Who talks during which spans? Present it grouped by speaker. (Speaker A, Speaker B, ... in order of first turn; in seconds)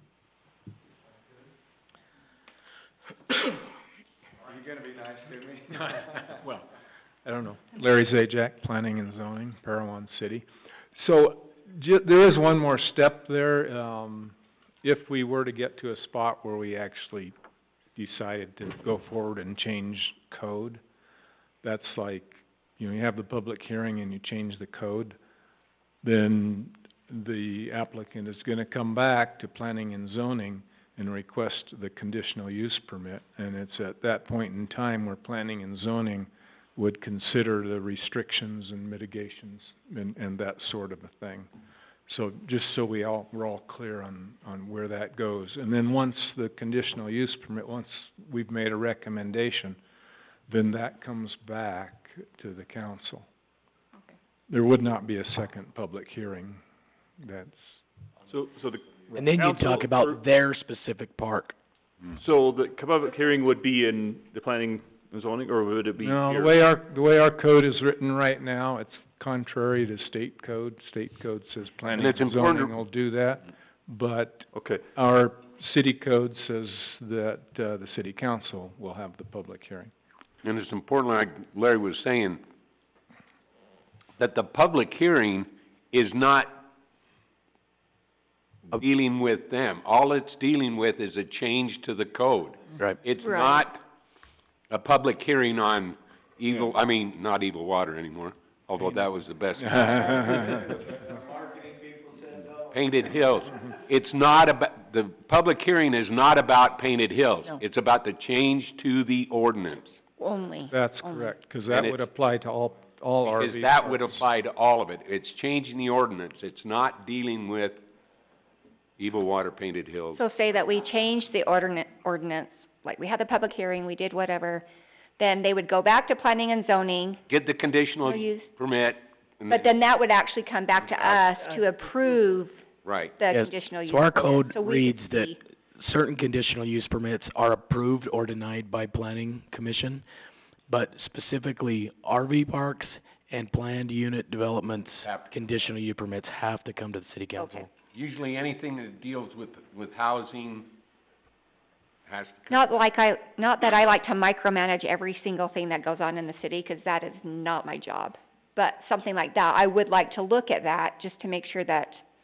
Speaker A: 4.6-5.6, 101.2-102.6
Speaker B: 5.7-6.7, 7.2-17.3, 17.9-20.8, 21.6-25.2, 26.0-41.5, 42.1-49.8, 50.5-53.2, 54.5-56.6, 57.2-57.8, 66.0-79.9, 99.6-100.8, 110.7-114.2
Speaker C: 58.3-60.2, 62.2-66.5, 74.5-74.8
Speaker D: 59.1-61.5, 133.3-140.1, 140.7-147.7
Speaker E: 71.9-72.7, 80.4-82.4, 84.2-86.6, 88.7-93.8, 94.7-100.5, 102.7-110.0, 111.7-112.0, 113.2-117.8, 119.0-120.2, 127.3-129.7, 132.8-133.2, 145.0-145.7, 147.9-150.7, 152.1-152.7
Speaker F: 93.2-93.6, 110.2-111.3, 120.2-124.6, 125.2-127.2, 128.0-128.5, 129.5-132.6, 133.2-135.4, 147.3-147.7, 152.5-162.0